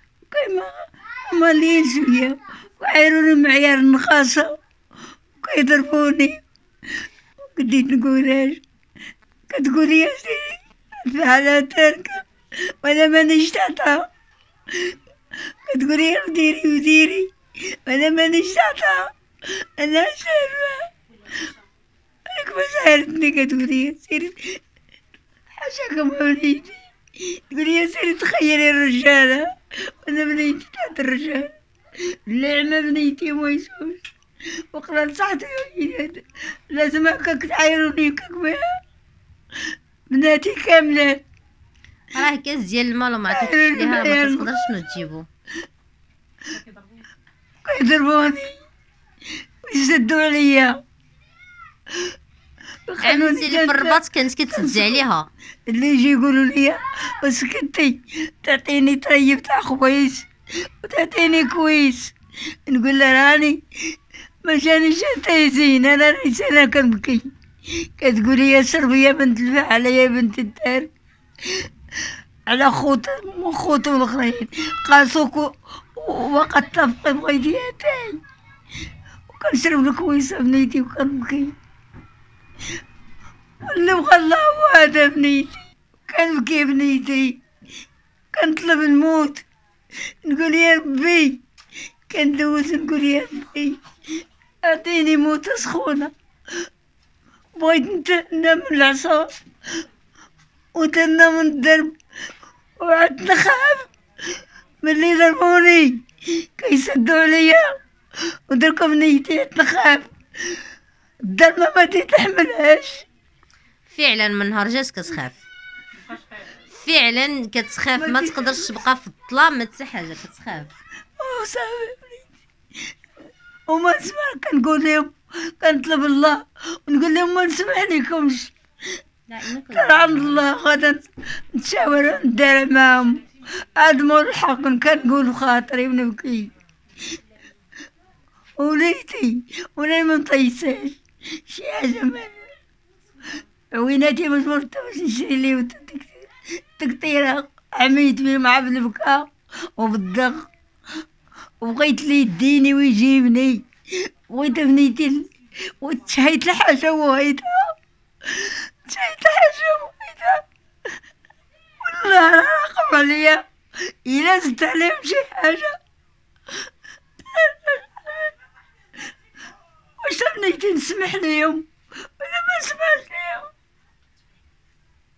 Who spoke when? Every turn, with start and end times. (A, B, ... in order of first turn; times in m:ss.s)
0:00.3-0:04.6 A
0:05.4-0:06.4 A
0:07.5-0:08.6 A
0:09.5-0:14.1 A
0:15.7-0:20.9 A
0:22.3-0:24.6 A
0:25.6-0:31.5 A
0:32.0-0:34.0 A
0:34.7-0:38.8 A
0:40.1-0:41.2 A
0:42.1-0:45.3 B
0:43.3-0:44.6 A
0:47.6-0:48.6 A
0:49.6-0:50.8 A
0:52.9-0:55.0 A
0:53.0-0:55.3 B
0:55.7-1:02.1 A
1:02.6-1:10.9 A
1:12.4-1:18.2 A
1:19.3-1:21.5 A
1:23.6-1:27.4 A
1:28.3-1:29.4 A
1:30.2-1:31.4 A
1:32.1-1:33.8 A
1:34.6-1:36.1 A
1:37.6-1:39.3 A
1:40.7-1:41.9 A
1:42.8-1:43.9 A
1:44.8-1:50.6 A
1:51.2-1:53.0 A
1:53.8-1:55.4 B
1:56.7-2:00.7 B
1:58.0-1:58.8 A
2:01.2-2:02.3 A
2:03.7-2:08.5 A
2:09.3-2:10.5 B
2:09.7-2:16.5 A
2:18.6-2:22.5 A
2:23.7-2:30.5 A
2:31.6-2:40.4 A
2:41.8-2:45.8 A
2:47.3-2:48.3 A
2:50.0-2:51.7 A
2:52.2-2:53.5 A